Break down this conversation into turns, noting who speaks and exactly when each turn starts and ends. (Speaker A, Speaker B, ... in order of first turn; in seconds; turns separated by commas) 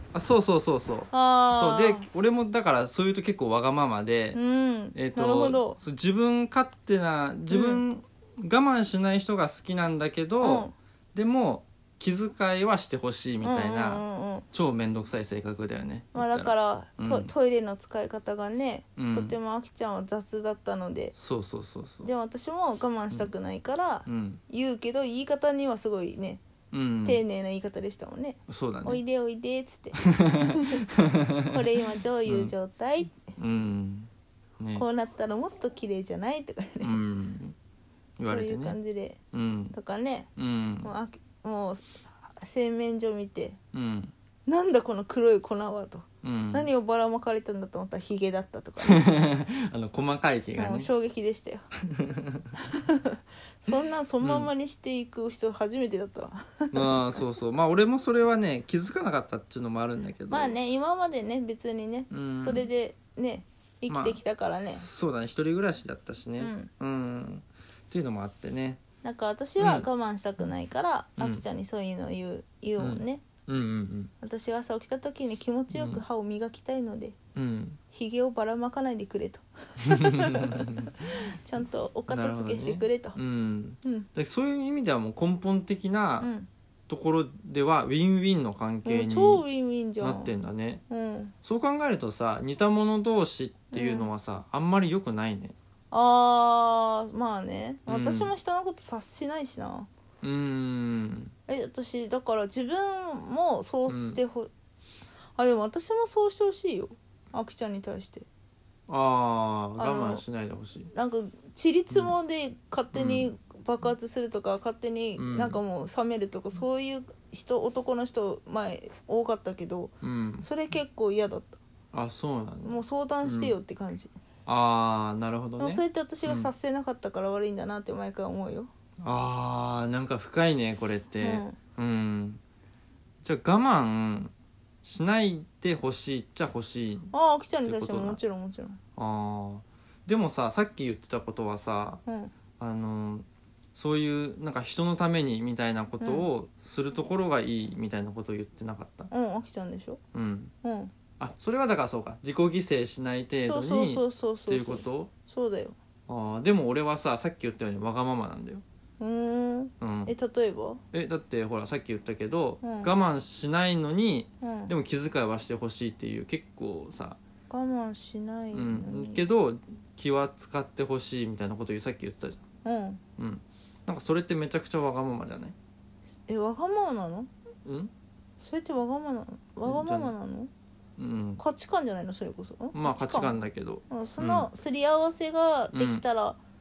Speaker A: 0.1-4.4, Speaker B: 1.1-2.1, Speaker B: 4.3-5.8, Speaker A: 5.0-17.3, Speaker B: 7.5-7.8, Speaker B: 10.4-10.8, Speaker B: 13.4-14.4, Speaker B: 16.1-21.1, Speaker A: 19.0-19.4, Speaker A: 21.2-22.1, Speaker B: 22.0-26.4, Speaker A: 24.1-24.4, Speaker A: 26.7-27.2, Speaker B: 27.1-30.9, Speaker A: 28.5-29.0, Speaker A: 29.9-31.5, Speaker B: 31.5-33.2, Speaker A: 32.3-32.5, Speaker A: 33.4-34.1, Speaker A: 34.6-34.9, Speaker B: 34.8-37.0, Speaker A: 36.8-37.6, Speaker A: 38.2-38.8, Speaker B: 38.2-39.2, Speaker A: 39.3-39.8, Speaker B: 39.7-40.3, Speaker A: 40.4-40.9, Speaker B: 40.8-43.6, Speaker A: 43.7-44.1, Speaker B: 44.5-49.2, Speaker A: 46.2-46.7, Speaker A: 48.9-50.9, Speaker B: 50.6-51.7, Speaker A: 51.9-52.6, Speaker B: 52.7-57.0, Speaker A: 54.2-54.5, Speaker A: 56.7-60.6, Speaker B: 60.3-64.8, Speaker A: 62.1-62.6, Speaker A: 63.9-64.2, Speaker A: 64.8-68.8, Speaker B: 66.4-66.7, Speaker B: 69.0-73.2, Speaker A: 69.6-69.9, Speaker A: 71.2-71.4, Speaker A: 72.8-74.1, Speaker B: 74.2-77.2, Speaker A: 75.7-76.0, Speaker A: 77.3-77.8, Speaker B: 77.9-80.9, Speaker A: 79.8-81.1, Speaker B: 81.4-83.2, Speaker A: 82.1-86.3, Speaker B: 86.2-86.5, Speaker A: 86.9-89.4, Speaker B: 88.8-90.3, Speaker A: 90.0-90.8, Speaker B: 90.9-91.3, Speaker A: 91.4-95.5, Speaker B: 93.7-94.1, Speaker B: 95.9-99.9, Speaker A: 97.9-98.3, Speaker A: 100.2-101.3, Speaker B: 101.5-104.5, Speaker A: 103.9-104.2, Speaker B: 105.4-108.3, Speaker A: 108.9-110.9, Speaker B: 109.8-110.2, Speaker B: 110.9-121.6, Speaker A: 112.9-113.3, Speaker A: 115.2-115.6, Speaker A: 120.0-120.5, Speaker A: 121.9-123.5, Speaker B: 122.6-124.1, Speaker A: 124.5-126.5, Speaker B: 125.6-128.7, Speaker A: 129.0-132.4, Speaker B: 131.2-131.6, Speaker A: 133.2-134.3, Speaker A: 134.8-137.1, Speaker B: 137.1-138.8, Speaker A: 137.7-138.2, Speaker A: 139.0-142.0, Speaker B: 142.1-142.3, Speaker A: 142.6-149.1, Speaker B: 146.0-146.3, Speaker B: 149.1-150.0, Speaker A: 150.1-150.5, Speaker B: 150.6-150.9, Speaker A: 151.2-155.1, Speaker B: 153.4-155.8, Speaker A: 156.1-158.6, Speaker B: 159.0-160.8, Speaker A: 159.8-160.1, Speaker A: 160.9-167.2, Speaker B: 162.6-162.9, Speaker B: 164.4-164.7, Speaker B: 167.5-169.2, Speaker A: 168.5-172.4, Speaker B: 172.7-173.0, Speaker A: 173.2-175.6, Speaker B: 176.3-177.3, Speaker A: 177.7-177.9, Speaker B: 178.4-180.5, Speaker A: 179.7-180.1, Speaker A: 181.0-181.4, Speaker B: 181.4-183.3, Speaker A: 182.7-184.5, Speaker B: 183.9-186.4, Speaker A: 185.7-186.0